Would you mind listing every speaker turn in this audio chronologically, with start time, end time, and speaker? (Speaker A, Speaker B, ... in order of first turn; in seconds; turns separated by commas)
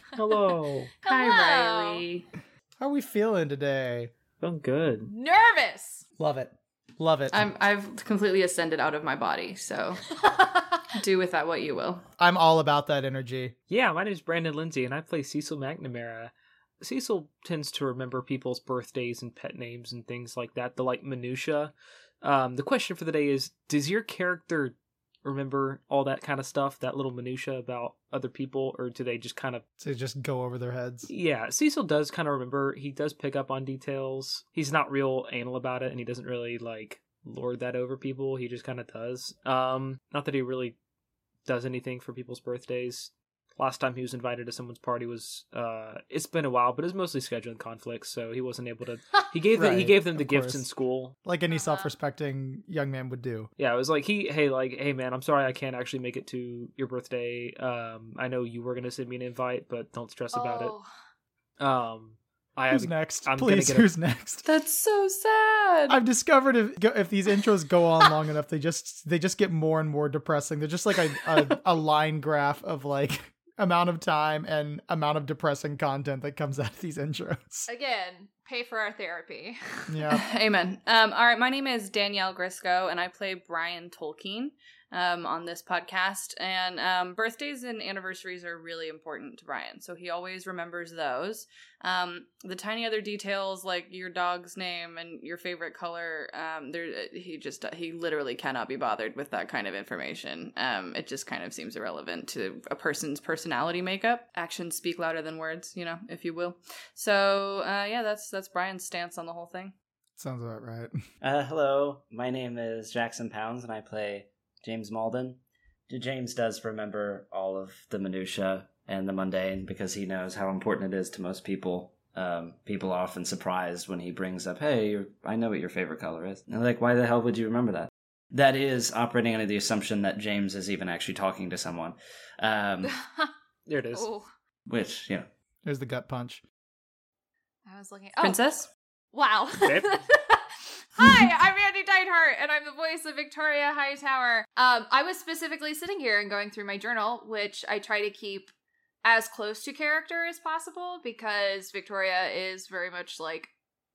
Speaker A: 0.1-0.9, Speaker B: 1.0-2.0, Speaker C: 1.0-2.2, Speaker D: 2.8-4.1, Speaker A: 4.4-5.1, Speaker B: 5.1-6.0, Speaker D: 6.2-7.5, Speaker C: 7.3-10.1, Speaker B: 10.2-10.8, Speaker C: 10.9-12.0, Speaker D: 12.2-13.5, Speaker A: 13.7-29.6, Speaker D: 29.8-31.1, Speaker A: 31.1-40.8, Speaker A: 41.5-51.1, Speaker D: 49.5-50.7, Speaker D: 51.2-53.5, Speaker B: 51.5-51.9, Speaker A: 53.6-60.7, Speaker B: 60.3-60.9, Speaker A: 61.6-63.9, Speaker D: 62.7-64.5, Speaker C: 64.4-66.0, Speaker D: 65.9-77.7, Speaker B: 77.7-79.9, Speaker D: 79.9-80.2, Speaker C: 80.1-109.7, Speaker D: 110.2-110.9, Speaker E: 111.2-132.9, Speaker B: 132.9-133.3, Speaker A: 133.7-134.1, Speaker B: 133.9-134.3, Speaker E: 134.7-135.3, Speaker D: 135.6-136.4, Speaker B: 137.7-138.4, Speaker C: 138.2-138.7, Speaker B: 139.1-148.5, Speaker A: 139.6-139.9, Speaker B: 149.0-153.5